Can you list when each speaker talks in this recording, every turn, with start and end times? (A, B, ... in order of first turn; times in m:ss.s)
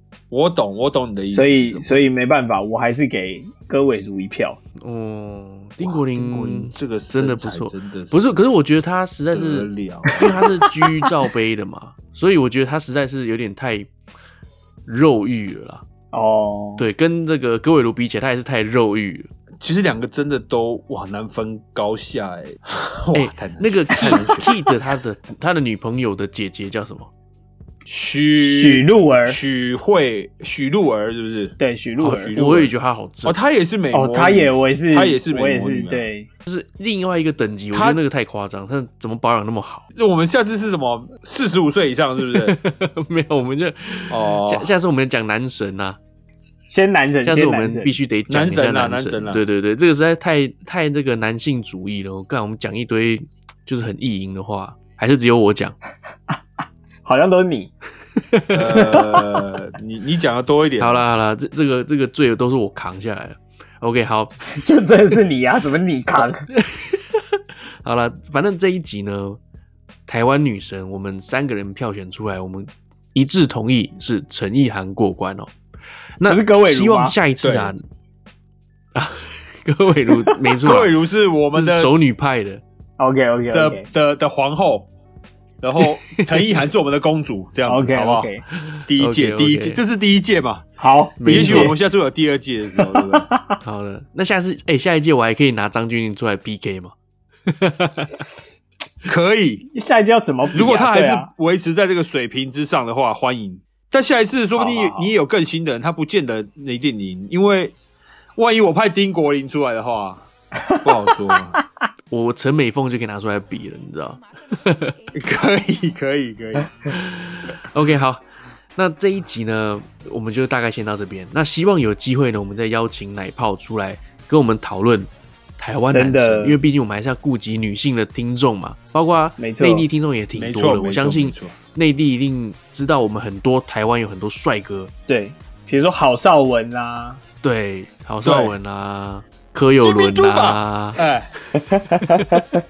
0:00.3-0:02.0 A
0:01.3-0:04.6 B
0:04.8-0:13.9 C
0:05.8-0:08.3 A
0:09.3-0:10.3 A
0:14.9-0:15.8 C
0:16.1-0:16.9 B
0:16.8-0:19.3 C
0:19.6-0:24.7 A
0:23.1-0:27.1 C
0:27.9-0:32.7 A
0:28.4-0:29.4 B
0:31.6-0:32.4 B
0:32.0-0:33.4 C
0:33.3-0:36.1 A
0:33.9-0:36.3 B
0:36.4-0:39.8 C
0:37.7-0:38.0 A
0:40.0-0:42.6 A
0:42.3-0:46.0 C
0:44.1-0:44.7 A
0:46.7-0:48.0 B
0:47.2-0:55.8 C
0:48.3-0:49.4 A
0:57.0-0:57.7 B
0:58.5-1:01.0 A
0:58.7-0:59.5 B
1:00.8-1:04.4 C
1:04.5-1:06.4 B
1:06.5-1:09.4 C
1:10.1-1:15.5 C
1:16.2-1:17.8 C
1:16.3-1:17.2 B
1:17.4-1:17.7 A
1:19.0-1:20.9 C
1:20.6-1:21.9 A
1:21.6-1:22.6 C
1:23.0-1:23.9 B
1:23.5-1:24.9 A
1:25.6-1:28.3 A
1:25.8-1:26.4 C
1:27.7-1:28.4 B
1:28.7-1:29.8 C
1:28.9-1:30.7 A
1:30.8-1:31.8 B
1:31.2-1:31.7 C
1:31.2-1:33.3 A
1:32.8-1:33.6 B
1:33.6-1:36.9 C
1:37.5-1:38.2 C
1:39.1-1:39.7 A
1:39.7-1:41.3 B
1:40.5-1:47.8 A
1:44.6-1:45.1 B
1:48.4-1:50.2 A
1:50.8-1:51.6 A
1:52.1-1:55.0 C
1:55.2-1:57.0 A
1:57.6-1:58.2 C
1:58.7-2:14.9 C
2:05.9-2:06.6 B
2:09.4-2:09.9 B
2:10.4-2:11.6 A
2:15.1-2:17.2 B
2:17.4-2:21.0 C
2:18.2-2:18.5 A
2:19.8-2:21.3 A
2:21.7-2:22.6 B